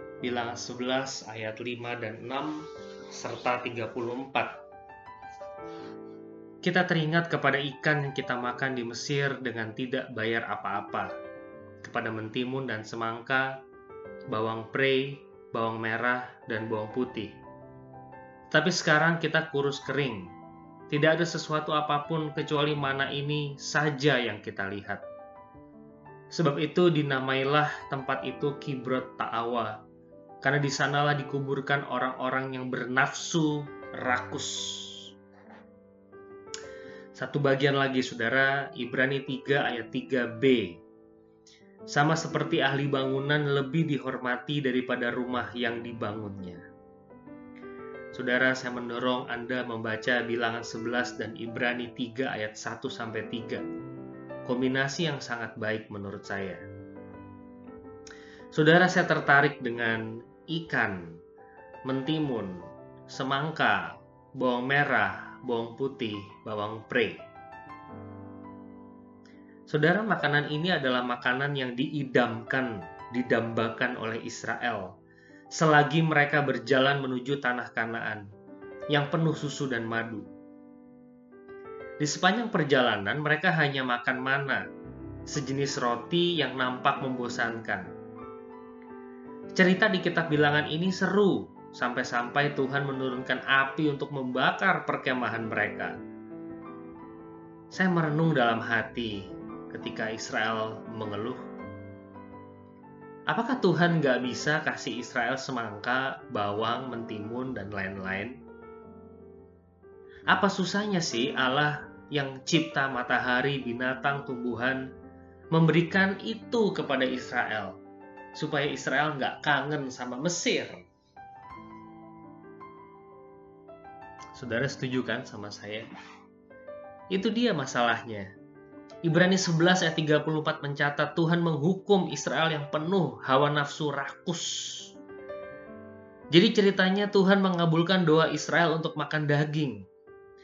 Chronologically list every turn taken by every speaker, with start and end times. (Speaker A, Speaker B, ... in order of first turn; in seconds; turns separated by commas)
Speaker A: 0.2-4.6, Speaker A: 6.6-11.1, Speaker A: 11.8-13.6, Speaker A: 14.3-17.4, Speaker A: 18.5-20.3, Speaker A: 20.9-25.0, Speaker A: 26.3-29.8, Speaker A: 30.4-35.1, Speaker A: 37.1-40.8, Speaker A: 41.9-46.6, Speaker A: 48.1-53.6, Speaker A: 54.5-56.6, Speaker A: 58.5-61.1, Speaker A: 61.9-67.2, Speaker A: 69.7-75.0, Speaker A: 75.5-78.2, Speaker A: 78.9-80.3, Speaker A: 82.0-84.6, Speaker A: 85.3-87.9, Speaker A: 89.5-96.0, Speaker A: 97.7-101.4, Speaker A: 103.3-108.4, Speaker A: 110.3-114.8, Speaker A: 115.5-117.8, Speaker A: 118.3-120.8, Speaker A: 124.3-125.8, Speaker A: 127.1-128.3, Speaker A: 129.0-134.9, Speaker A: 136.3-139.8